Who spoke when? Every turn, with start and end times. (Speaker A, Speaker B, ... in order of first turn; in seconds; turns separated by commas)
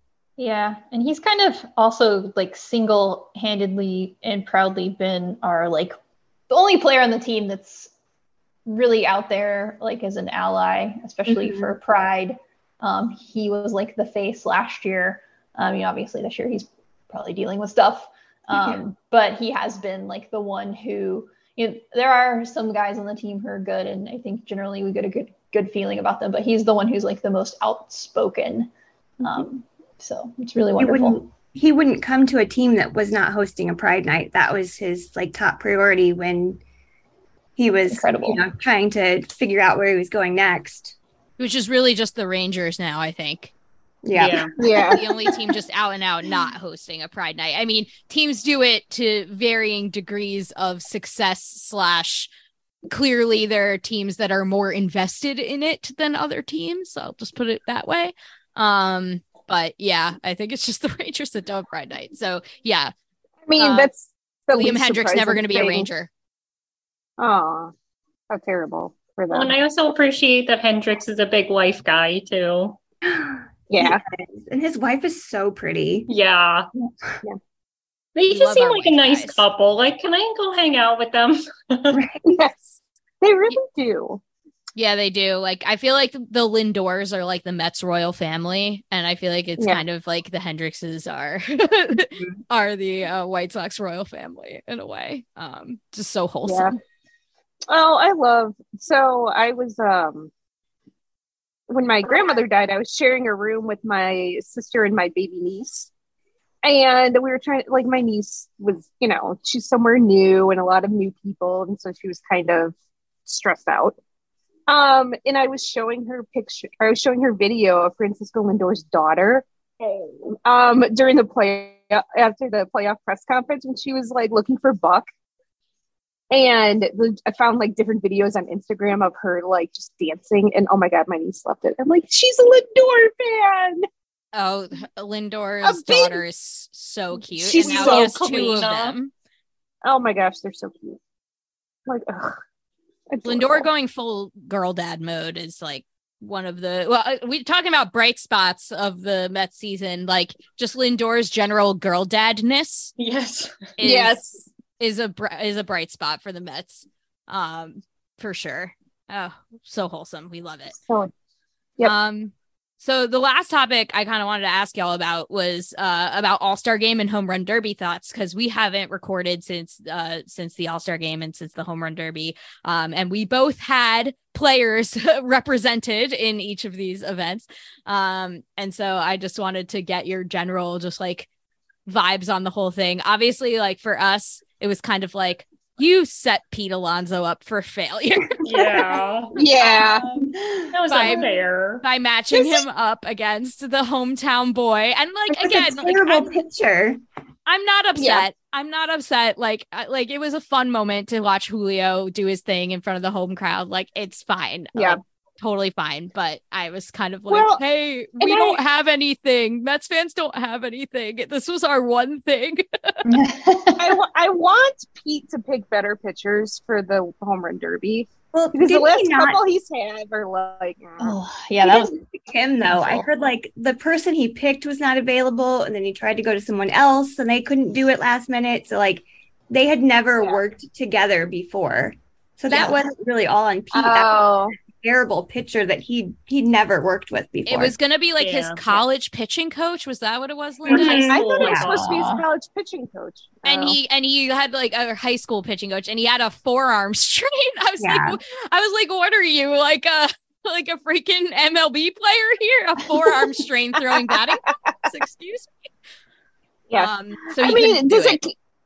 Speaker A: 0.4-6.0, Speaker A: 6.5-7.9, Speaker A: 8.7-31.2, Speaker B: 11.3-11.7, Speaker B: 30.8-36.6, Speaker B: 37.6-41.0, Speaker A: 37.9-38.5, Speaker C: 41.4-43.5, Speaker B: 44.0-44.5, Speaker D: 44.1-44.5, Speaker E: 44.6-45.0, Speaker C: 44.9-52.3, Speaker C: 52.9-62.9, Speaker E: 63.5-65.9, Speaker C: 63.6-63.9, Speaker C: 64.5-66.1, Speaker E: 67.2-67.7, Speaker E: 68.3-69.5, Speaker D: 69.3-72.8, Speaker B: 73.0-76.1, Speaker E: 73.7-74.0, Speaker D: 76.1-76.7, Speaker D: 78.1-82.0, Speaker C: 78.3-79.4, Speaker B: 81.9-82.2, Speaker E: 82.2-84.2, Speaker C: 84.8-96.7, Speaker E: 89.6-89.8, Speaker E: 96.4-96.7, Speaker E: 97.7-100.3, Speaker E: 101.7-105.9, Speaker E: 106.6-112.7, Speaker E: 113.2-114.0, Speaker E: 114.7-119.4, Speaker E: 120.4-125.0, Speaker E: 126.3-133.8, Speaker C: 134.3-139.1, Speaker E: 135.6-136.2, Speaker E: 137.4-138.7, Speaker D: 137.6-138.9, Speaker E: 139.8-141.0, Speaker E: 141.8-142.4, Speaker E: 143.1-143.7, Speaker C: 143.2-152.9, Speaker D: 153.0-153.7, Speaker C: 153.8-154.2, Speaker E: 153.8-154.5, Speaker C: 154.8-160.7, Speaker E: 160.7-161.1, Speaker C: 161.8-181.3, Speaker C: 181.9-188.4, Speaker D: 188.4-189.4, Speaker E: 189.3-190.0, Speaker A: 190.3-190.7, Speaker C: 190.7-191.2, Speaker D: 190.9-191.8, Speaker C: 191.8-196.4, Speaker E: 192.3-192.6, Speaker B: 195.3-197.0, Speaker C: 197.4-213.0, Speaker E: 197.9-198.2, Speaker E: 204.7-205.0, Speaker E: 207.3-207.6, Speaker E: 208.2-208.6, Speaker A: 213.1-213.9, Speaker E: 213.8-221.2, Speaker B: 218.3-219.4, Speaker A: 221.0-221.9, Speaker B: 221.7-237.8, Speaker E: 222.7-223.0, Speaker E: 233.7-234.6, Speaker C: 237.4-241.5, Speaker D: 238.2-238.8, Speaker D: 240.7-242.0, Speaker E: 241.0-243.8, Speaker B: 241.4-241.7, Speaker A: 241.9-242.2, Speaker C: 243.4-255.6, Speaker B: 247.8-248.2, Speaker E: 254.5-254.7, Speaker E: 256.7-258.3, Speaker C: 256.7-258.2